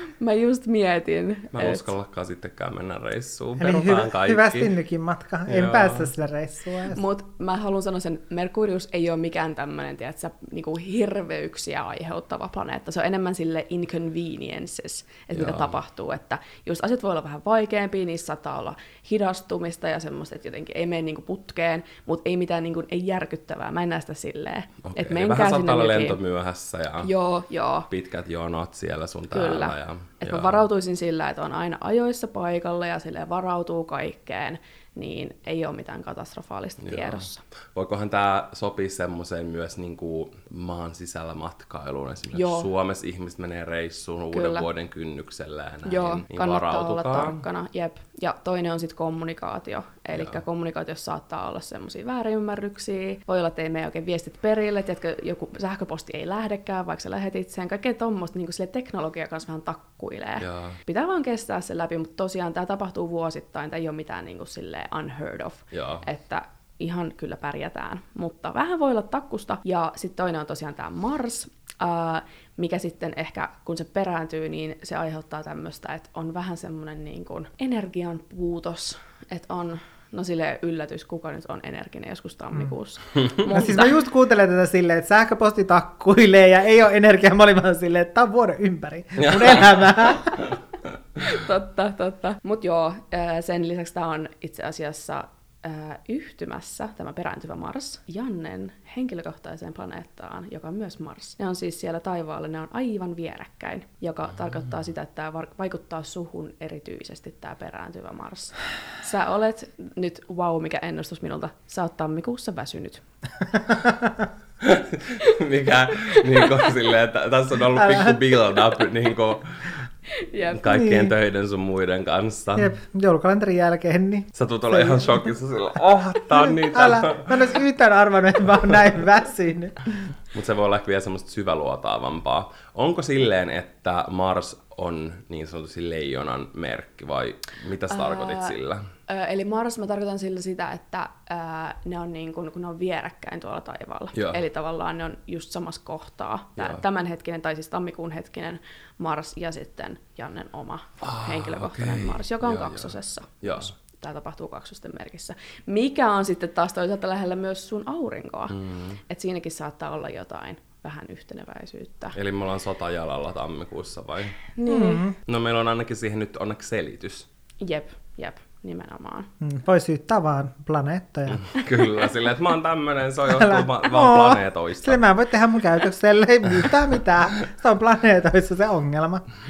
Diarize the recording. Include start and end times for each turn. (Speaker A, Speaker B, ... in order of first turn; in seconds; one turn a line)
Speaker A: 0.2-1.9
Speaker B: 1.5-4.7
Speaker C: 3.6-7.0
Speaker B: 5.5-6.1
Speaker A: 6.9-26.2
Speaker B: 15.3-15.8
Speaker B: 24.8-27.1
Speaker A: 27.0-27.9
Speaker B: 27.9-30.6
Speaker A: 29.3-37.4
Speaker B: 36.8-47.4
Speaker A: 42.3-42.7
Speaker A: 44.3-44.7
Speaker A: 45.8-84.0
Speaker B: 50.1-50.4
Speaker B: 60.4-60.8
Speaker B: 65.7-66.0
Speaker C: 83.5-90.3
Speaker B: 89.2-90.5
Speaker A: 91.2-113.0
Speaker C: 113.5-114.3
Speaker B: 114.6-119.8
Speaker C: 117.8-118.2
Speaker A: 120.2-120.8
Speaker B: 120.5-122.7
Speaker C: 120.7-121.1
Speaker C: 122.5-125.2
Speaker B: 124.3-127.5
Speaker C: 126.3-130.0
Speaker B: 130.3-138.8
Speaker A: 137.9-138.6
Speaker A: 139.1-162.2
Speaker B: 144.1-144.4
Speaker B: 151.0-153.7
Speaker B: 158.5-159.0
Speaker B: 162.1-164.4
Speaker A: 164.5-165.1
Speaker C: 164.7-165.1
Speaker B: 165.2-167.3
Speaker A: 167.6-169.3
Speaker C: 169.4-171.4
Speaker B: 171.3-175.1
Speaker C: 173.3-179.2